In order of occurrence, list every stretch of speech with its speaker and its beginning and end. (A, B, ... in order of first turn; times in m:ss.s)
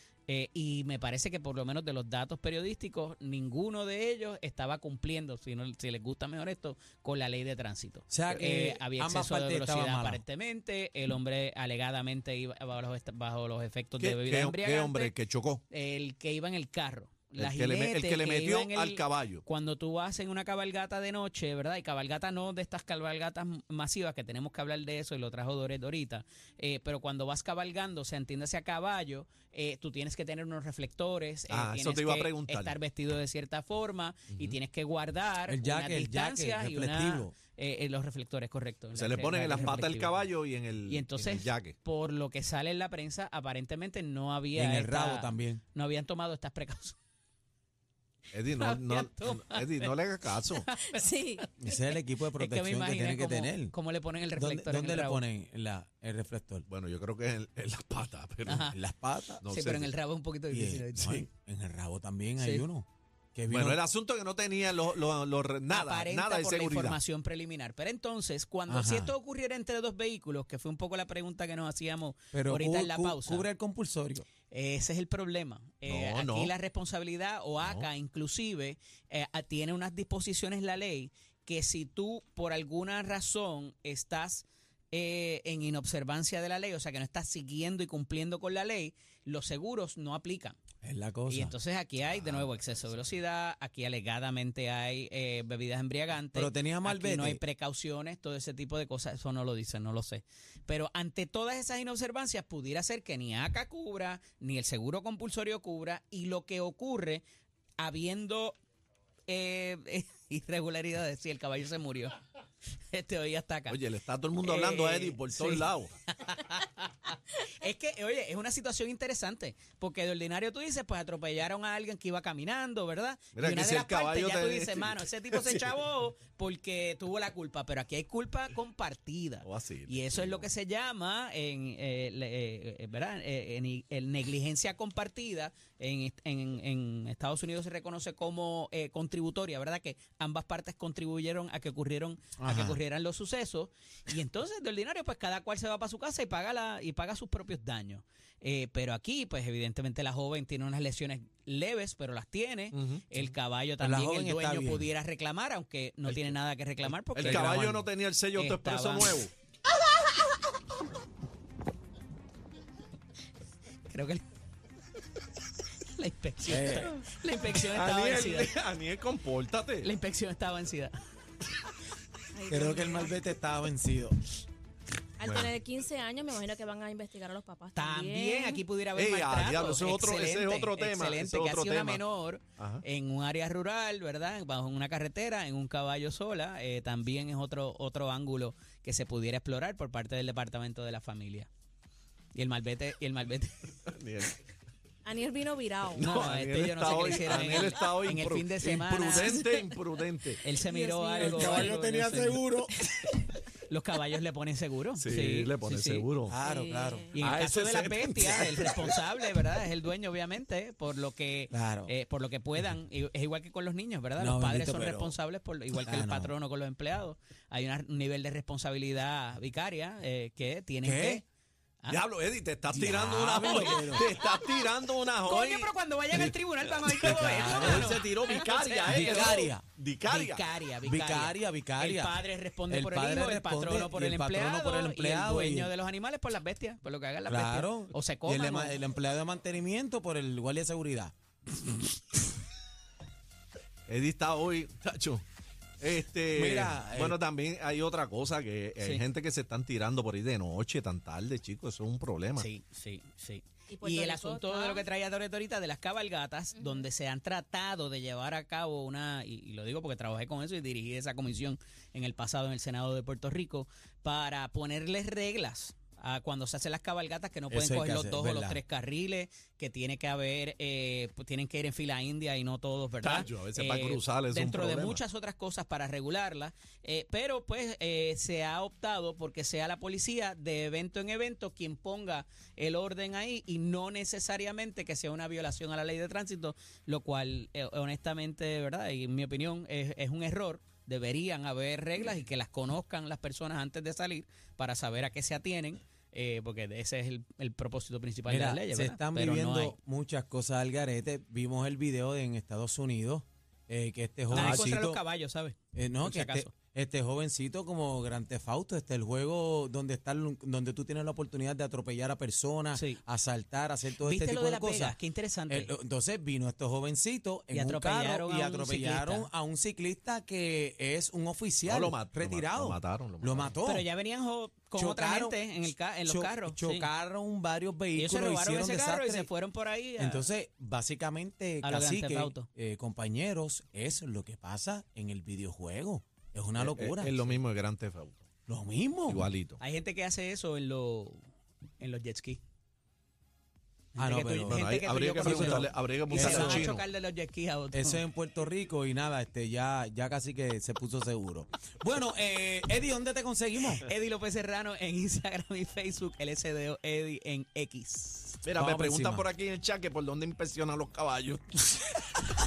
0:00.3-0:15.1 A
0:08.1-0:10.2 B
0:14.0-0:15.6 C
0:15.7-0:40.3 A
0:17.4-0:19.4 C
0:31.5-0:32.8 C
0:35.5-0:37.3 B
0:39.0-0:41.8 C
0:40.9-0:47.0 A
0:44.5-0:45.6 B
0:48.3-0:50.7 C
0:48.5-0:55.2 A
0:50.9-0:51.4 D
0:51.6-0:53.8 B
0:54.4-0:56.7 B
0:56.7-0:58.7 C
0:58.5-0:58.8 A
0:58.7-0:59.4 B
0:59.4-0:59.9 C
0:59.5-1:01.3 A
1:00.5-1:03.8 B
1:02.4-1:02.7 A
1:03.5-1:07.0 C
1:05.7-1:13.5 A
1:08.7-1:09.2 B
1:12.3-1:14.3 B
1:14.5-1:30.6 A
1:15.9-1:16.5 C
1:17.6-1:17.9 C
1:30.8-1:31.5 B
1:31.3-1:47.2 A
1:32.0-1:33.2 C
1:36.3-1:37.4 B
1:47.8-1:48.6 A
1:49.3-1:52.2 A
1:52.9-1:53.8 A
1:53.7-1:55.9 C
1:54.4-2:37.6 A
2:03.3-2:05.7 C
2:09.4-2:10.5 C
2:22.4-2:22.8 B
2:32.7-2:33.3 C
2:33.8-2:34.9 B
2:36.1-2:36.3 B
2:36.9-2:37.9 B
2:37.2-2:39.3 C
2:38.3-2:39.2 A
2:43.9-2:44.2 A
2:45.9-2:48.6 A
2:46.5-2:47.0 B
2:47.7-2:49.9 C
2:49.8-2:51.0 A
2:52.3-2:53.2 D
2:52.5-2:54.2 B
2:55.2-2:58.6 D
2:55.2-2:55.6 C
2:57.8-3:11.5 A
2:59.0-3:02.0 C
3:02.6-3:02.8 C
3:12.4-3:13.7 A
3:13.9-3:14.3 C
3:15.0-3:16.1 D
3:16.0-3:20.4 C
3:16.0-3:19.4 A
3:17.3-3:17.9 D
3:19.1-3:19.7 D
3:20.4-3:22.4 A
3:20.6-3:21.8 D
3:21.2-3:22.7 B
3:23.7-3:26.1 A
3:25.0-3:26.4 C
3:26.3-3:27.2 B
3:26.5-3:27.2 D
3:27.1-3:41.2 A
3:27.2-3:29.0 C
3:31.5-3:31.9 B
3:34.2-3:35.2 B
3:35.7-3:36.3 B
3:40.8-3:41.2 B
3:41.9-3:50.4 C
3:42.7-3:44.1 B
3:45.2-3:49.5 A
3:47.0-3:48.0 B
3:48.8-3:49.6 B
3:50.1-3:58.8 A
3:50.8-3:55.7 B
3:57.3-4:01.1 B
4:03.9-4:05.2 C
4:05.8-4:12.5 C
4:06.3-4:07.2 B
4:08.8-4:09.0 A
4:12.4-4:59.8 A
4:13.7-4:14.8 D
4:27.5-4:28.6 B
4:33.0-4:35.0 C
4:58.3-5:05.0 B
5:04.3-5:06.5 A
5:04.3-5:04.7 C
5:05.7-5:15.0 B
5:12.7-5:13.0 A
5:14.0-5:15.7 A
5:15.5-5:23.9 B
5:17.5-5:19.3 A
5:21.7-5:23.6 C
5:23.6-5:26.9 A
5:24.7-5:29.3 B
5:28.0-5:30.3 A
5:30.0-5:37.4 B
5:31.6-5:32.5 A
5:36.6-5:38.2 C
5:38.5-5:39.3 B
5:39.1-5:39.6 C
5:39.6-5:41.3 A
5:41.8-5:42.4 A
5:44.0-5:48.0 A
5:44.0-5:46.8 B
5:44.4-5:46.8 C
5:47.7-5:53.8 B
5:53.8-5:58.4 A
5:58.4-6:02.2 C
5:58.6-5:59.3 B